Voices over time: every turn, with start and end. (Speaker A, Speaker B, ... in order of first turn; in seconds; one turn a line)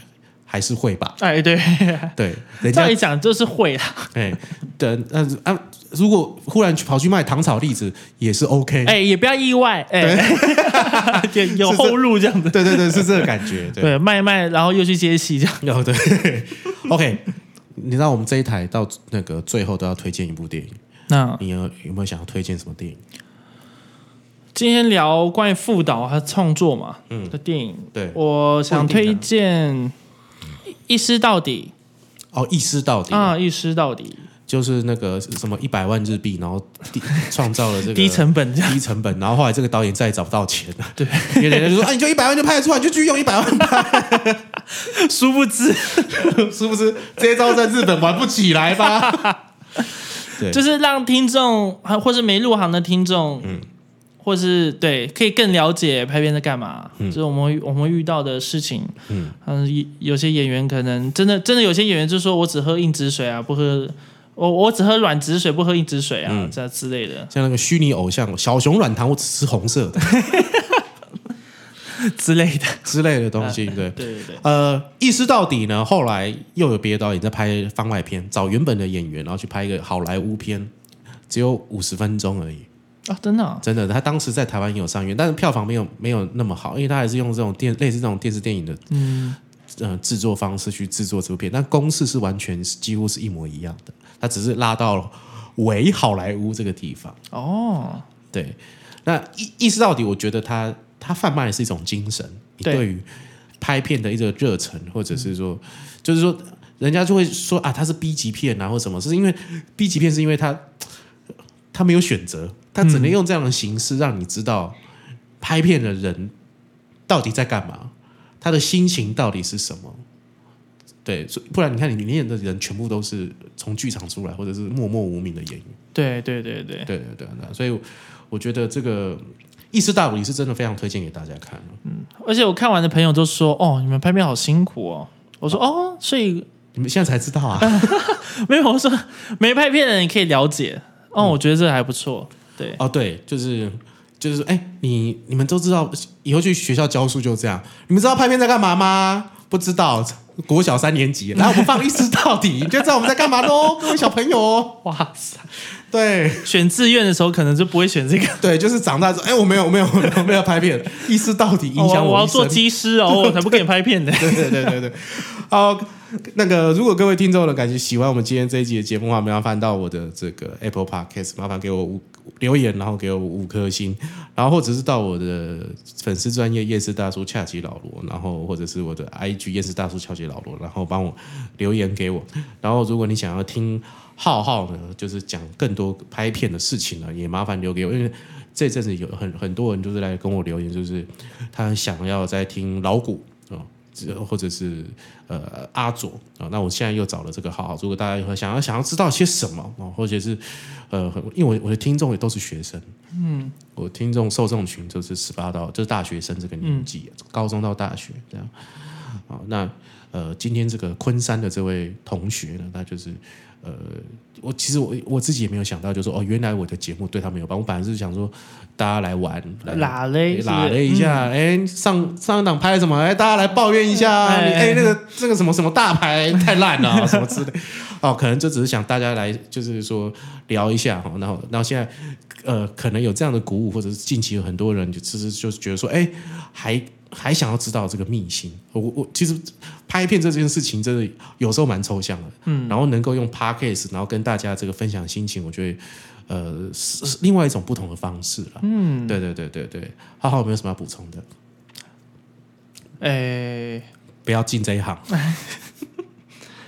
Speaker A: 0.5-1.2
Speaker B: 1.2-4.1
Speaker A: 2.1-3.0
Speaker A: 4.1-8.9
Speaker B: 8.8-15.6
Speaker A: 10.0-13.9
Speaker A: 15.6-20.7
Speaker B: 21.1-21.4
Speaker A: 21.4-23.0
Speaker B: 24.5-29.9
Speaker A: 27.1-27.3
Speaker A: 27.9-29.2
Speaker B: 30.9-31.7
Speaker A: 32.3-33.4
Speaker B: 33.1-34.3
Speaker A: 34.5-44.5
Speaker B: 37.9-38.8
Speaker B: 41.0-41.8
Speaker B: 44.7-46.4
Speaker A: 46.1-49.3
Speaker B: 48.9-53.6
Speaker B: 54.2-67.3
Speaker A: 59.1-59.3
Speaker A: 66.3-66.5
Speaker A: 67.3-70.1
Speaker B: 70.0-70.8
Speaker B: 71.9-74.4
Speaker A: 72.8-80.7
Speaker A: 81.3-82.7
Speaker B: 83.1-83.6
Speaker A: 83.6-88.8
Speaker B: 88.9-89.4
Speaker A: 89.7-97.2
Speaker B: 97.3-98.0
Speaker A: 98.3-103.1
Speaker A: 103.6-110.7
Speaker A: 111.7-114.8
Speaker B: 112.8-113.2
Speaker A: 115.4-116.3
Speaker A: 117.1-120.0
Speaker A: 121.0-125.7
Speaker B: 125.9-126.9
Speaker A: 126.9-131.8
Speaker B: 131.8-136.4
Speaker A: 136.7-138.0
Speaker B: 137.6-142.8
Speaker A: 142.8-154.8
Speaker B: 151.4-151.9
Speaker B: 153.2-154.0
Speaker B: 154.8-155.5
Speaker A: 155.7-156.5
Speaker B: 156.4-158.4
Speaker A: 158.4-163.6
Speaker B: 161.8-164.8
Speaker A: 164.2-202.9
Speaker B: 203.1-203.5
Speaker A: 203.7-251.2
Speaker B: 206.6-206.9
Speaker B: 219.7-221.3
Speaker B: 224.0-224.9
Speaker B: 226.8-227.1
Speaker B: 242.4-242.8
Speaker B: 248.6-249.2
Speaker B: 253.0-253.9
Speaker A: 254.2-255.1
Speaker B: 255.2-255.5